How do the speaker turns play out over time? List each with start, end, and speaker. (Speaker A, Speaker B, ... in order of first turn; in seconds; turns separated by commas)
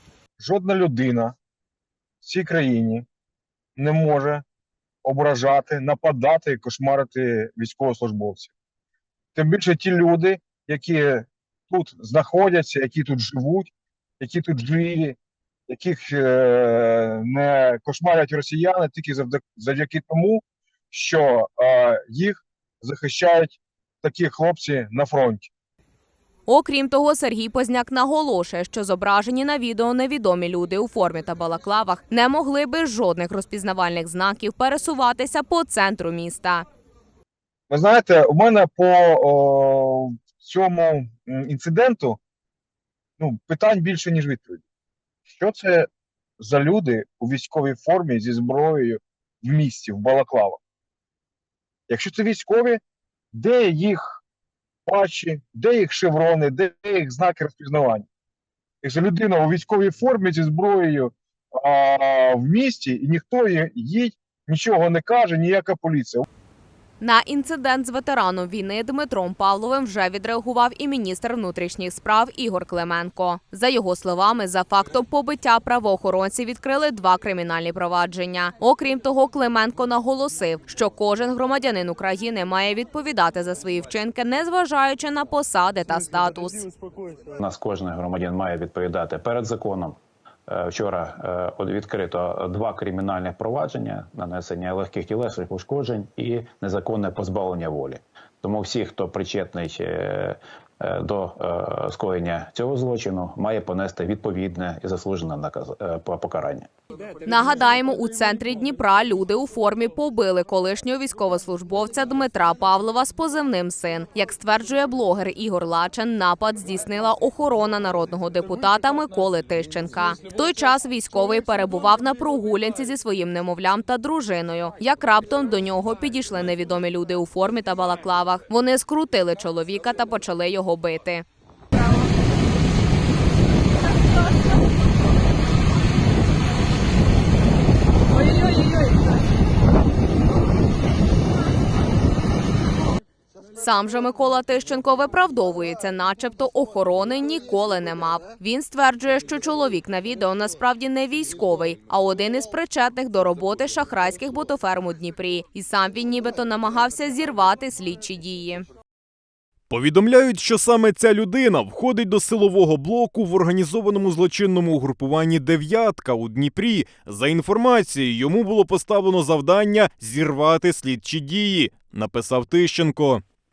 Speaker A: 0.4-1.4, Speaker A: 2.2-3.0, Speaker A: 3.8-4.4, Speaker A: 5.0-8.5, Speaker A: 9.3-15.2, Speaker A: 15.7-25.5, Speaker B: 26.5-36.7, Speaker A: 37.7-42.2, Speaker A: 43.2-44.6, Speaker A: 45.4-45.9, Speaker A: 46.4-50.6, Speaker A: 51.9-52.8, Speaker A: 53.3-54.2, Speaker A: 54.9-58.1, Speaker A: 58.8-66.3, Speaker B: 67.0-86.7, Speaker C: 87.4-106.7, Speaker B: 107.2-131.2, Speaker B: 143.6-158.7, Speaker D: 159.7-173.2